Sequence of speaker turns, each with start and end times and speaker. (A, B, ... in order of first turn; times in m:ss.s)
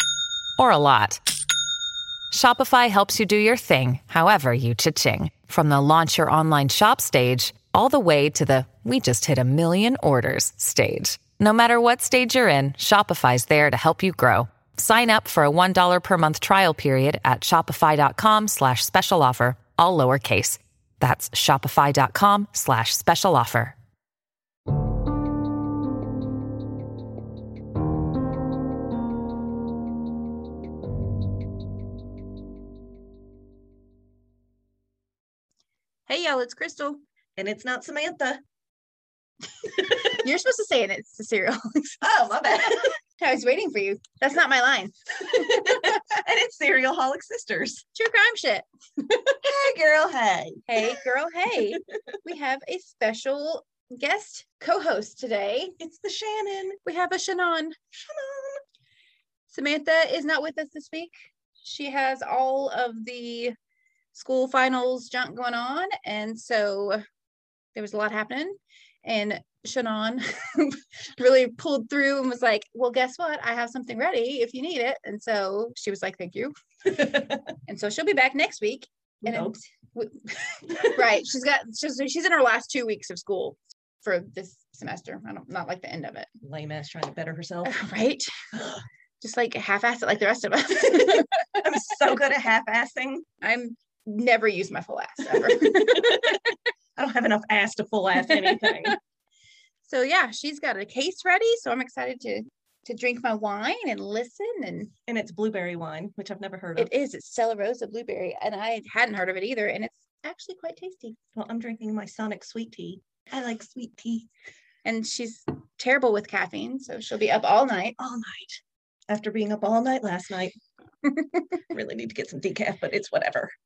0:00.6-0:01.2 A
0:02.3-0:23.8 A
0:36.1-0:37.0 B
0:37.4-0:38.4 C
0:39.6-0:45.9 B
0:42.0-0:42.9 C
0:45.3-0:47.8 C
0:47.9-0:48.6 B
0:49.2-0:51.0 C
0:50.7-0:55.8 B
0:55.8-0:56.8 C
0:56.8-0:57.8 B
0:57.9-0:58.6 C
0:59.5-1:03.6 B
1:04.1-1:07.0 B
1:07.7-1:26.3 B
1:19.2-1:19.6 C
1:20.7-1:21.0 C
1:26.4-1:27.8 C
1:27.6-1:28.3 B
1:29.2-1:31.9 B
1:31.0-1:33.3 C
1:33.4-1:36.5 B
1:35.3-1:39.0 C
1:38.2-1:39.0 B
1:39.8-1:44.9 B
1:45.1-1:46.9 C
1:46.8-1:51.2 B
1:51.4-1:54.3 C
1:54.8-1:58.0 B
1:58.0-2:00.5 C
2:01.0-2:01.6 B
2:01.7-2:03.5 C